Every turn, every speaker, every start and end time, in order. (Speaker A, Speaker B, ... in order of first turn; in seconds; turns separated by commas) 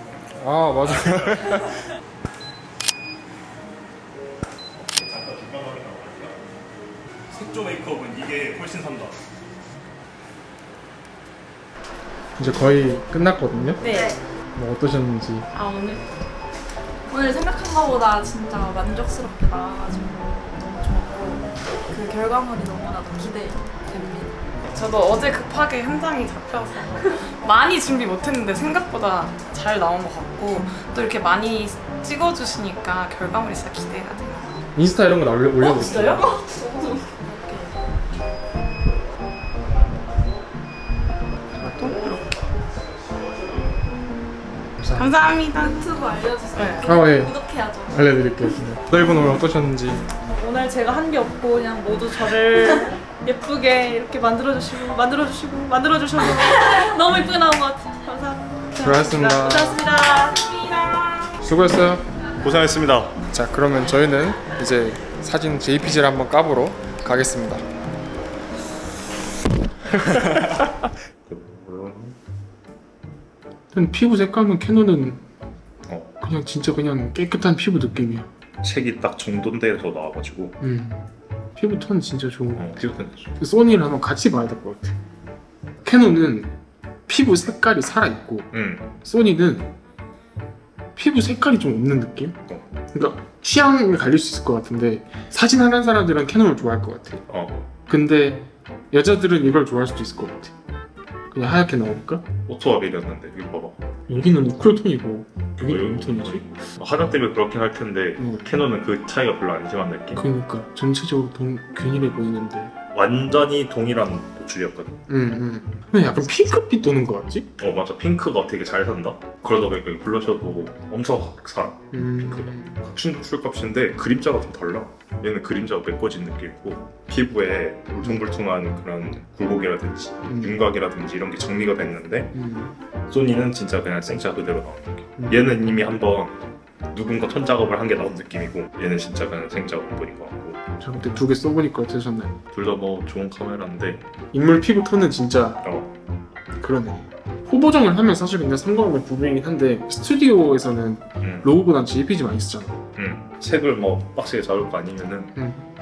Speaker A: 0.3-1.8, Speaker B: 1.1-1.4, Speaker B: 4.8-6.4, Speaker B: 7.3-9.2, Speaker A: 12.4-13.8, Speaker C: 13.8-14.2, Speaker D: 13.8-14.1, Speaker A: 14.5-15.5, Speaker D: 15.5-16.0, Speaker C: 17.1-24.4, Speaker D: 24.7-34.5, Speaker A: 34.7-36.3, Speaker D: 35.7-36.2, Speaker D: 37.4-37.7, Speaker B: 41.8-42.2, Speaker D: 41.8-42.2, Speaker B: 43.0-43.5, Speaker A: 44.8-45.1, Speaker D: 45.0-45.8, Speaker C: 45.5-47.9, Speaker D: 46.5-47.0, Speaker A: 46.8-47.3, Speaker A: 47.9-50.0, Speaker E: 50.3-61.1, Speaker A: 58.8-59.8, Speaker A: 61.4-62.0, Speaker B: 62.4-63.2, Speaker A: 63.3-67.6, Speaker B: 70.1-70.5, Speaker B: 71.2-72.2, Speaker A: 73.7-75.2, Speaker B: 75.9-76.1, Speaker A: 76.2-78.3, Speaker B: 78.6-80.5, Speaker A: 80.6-81.0, Speaker A: 81.5-82.8, Speaker B: 82.5-83.3, Speaker A: 83.3-85.0, Speaker A: 85.8-86.5, Speaker A: 87.1-88.5, Speaker B: 88.5-88.9, Speaker A: 89.0-89.7, Speaker A: 91.0-92.4, Speaker B: 92.5-92.7, Speaker A: 92.9-97.2, Speaker B: 97.3-97.7, Speaker A: 97.8-100.5, Speaker A: 101.3-102.2, Speaker B: 102.5-103.8, Speaker A: 104.1-106.4, Speaker B: 105.6-110.2, Speaker A: 108.2-108.5, Speaker A: 110.2-112.7, Speaker B: 112.9-115.0, Speaker A: 115.1-117.5, Speaker B: 117.6-132.3, Speaker A: 121.9-122.8, Speaker A: 130.2-130.6, Speaker A: 132.3-132.7, Speaker B: 133.1-140.6, Speaker A: 135.2-135.4, Speaker A: 140.8-142.3, Speaker B: 142.5-144.1, Speaker A: 144.3-145.6, Speaker B: 145.6-145.9, Speaker A: 146.5-152.8, Speaker B: 151.2-151.5, Speaker B: 153.0-155.3, Speaker A: 155.3-155.7